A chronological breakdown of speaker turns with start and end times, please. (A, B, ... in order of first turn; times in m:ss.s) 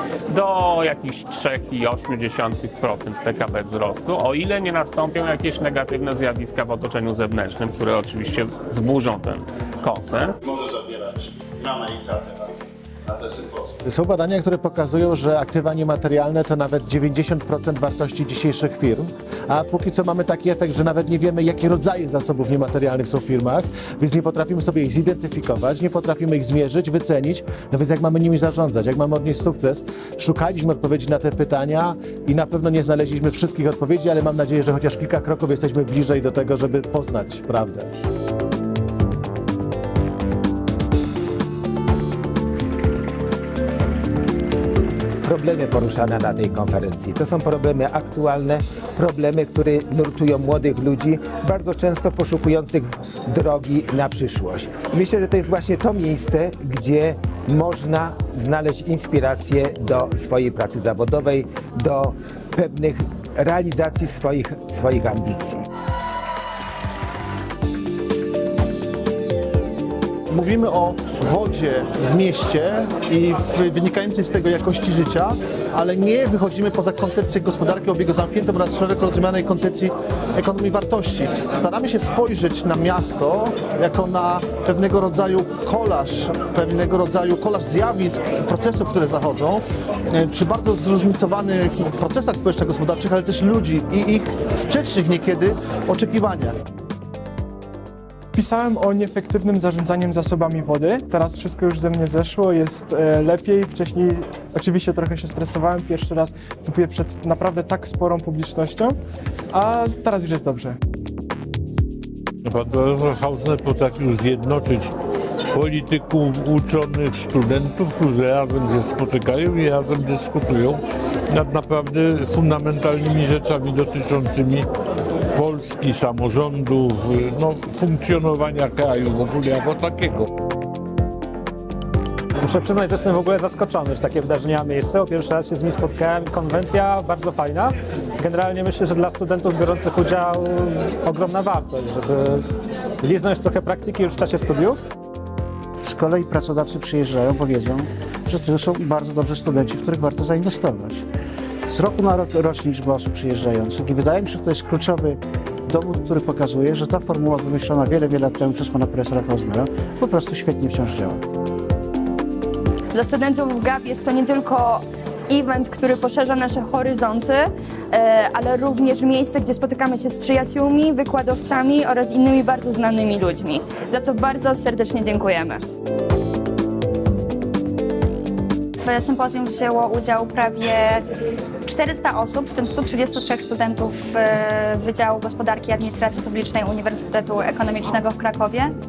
0:00.3-0:10.4 A
0:10.5-0:12.5 B
0:13.2-0:13.7 B
0:13.8-0:37.9 C
0:45.2-1:05.6 D
1:10.3-1:36.6 E
1:38.3-1:49.0 F
1:49.5-1:50.8 F
1:52.4-1:54.9 G
1:55.5-2:04.7 G
2:05.4-2:10.3 G
2:12.4-2:22.5 H
2:23.0-2:24.8 H
2:25.8-2:31.0 I
2:31.7-2:41.2 I
2:42.9-2:55.6 J
2:58.8-3:01.0 K
3:01.6-3:08.7 K